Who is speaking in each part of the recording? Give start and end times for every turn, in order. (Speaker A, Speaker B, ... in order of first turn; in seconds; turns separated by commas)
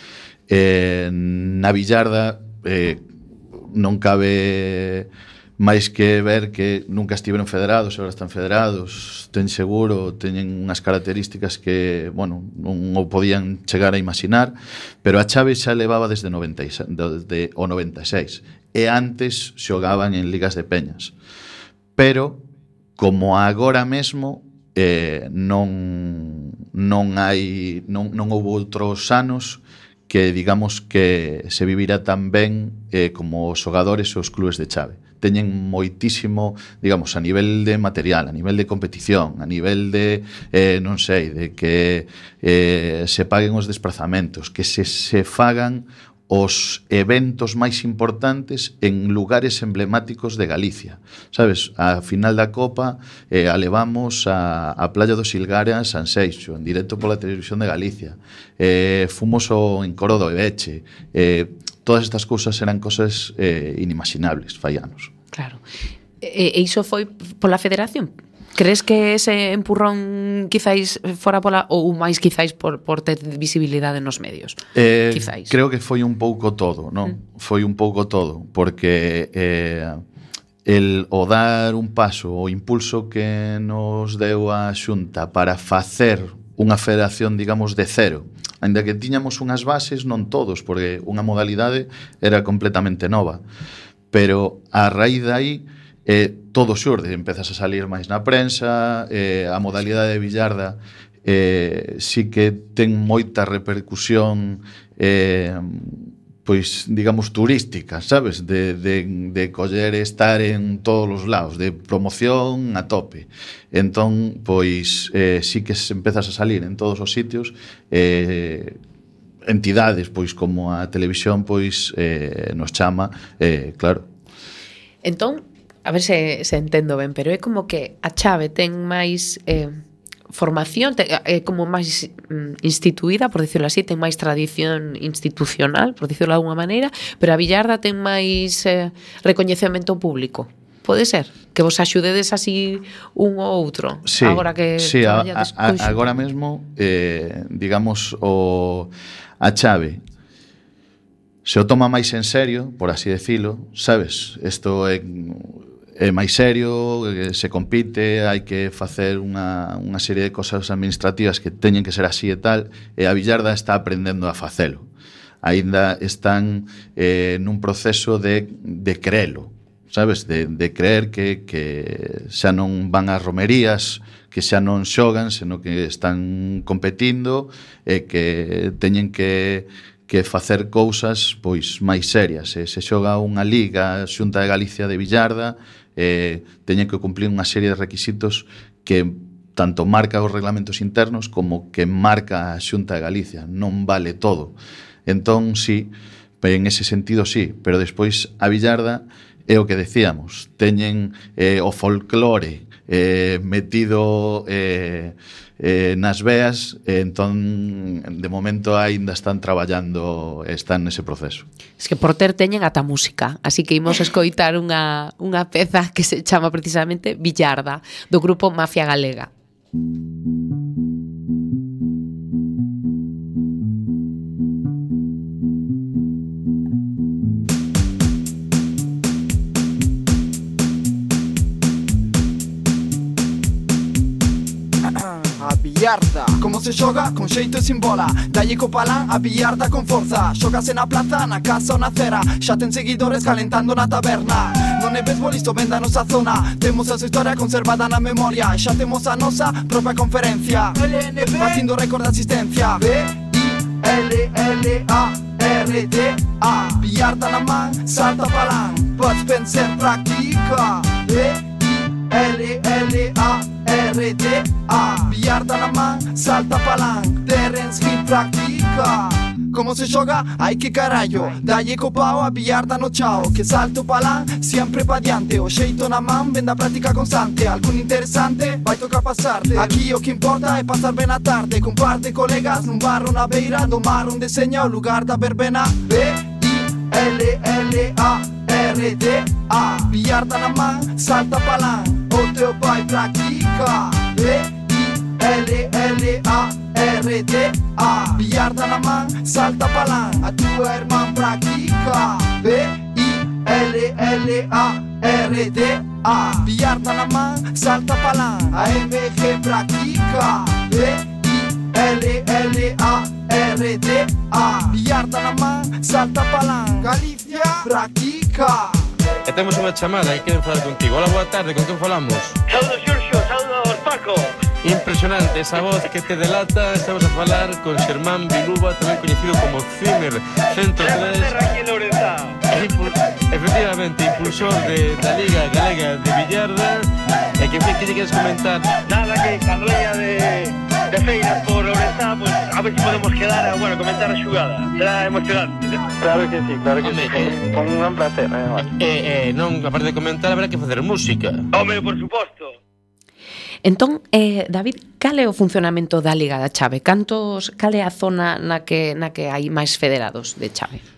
Speaker A: 0.5-3.0, Speaker A: 3.6-21.1, Speaker A: 22.0-22.4, Speaker A: 23.0-65.1, Speaker B: 65.3-65.6, Speaker B: 66.2-74.6, Speaker A: 74.8-80.0, Speaker B: 75.1-75.5, Speaker A: 80.7-93.4, Speaker A: 94.1-118.8, Speaker A: 119.5-124.1, Speaker B: 125.0-129.8, Speaker B: 130.3-146.1, Speaker A: 144.1-150.0, Speaker A: 151.4-164.9, Speaker A: 165.4-194.6, Speaker A: 195.1-211.5, Speaker B: 211.8-219.3, Speaker C: 235.2-318.9, Speaker D: 319.3-322.4, Speaker E: 322.5-324.3, Speaker D: 324.6-331.4, Speaker E: 330.7-332.4, Speaker D: 332.5-338.8, Speaker E: 338.8-345.8, Speaker F: 346.0-348.7, Speaker D: 346.8-347.4, Speaker D: 348.6-351.5, Speaker E: 351.5-352.5, Speaker B: 353.6-360.8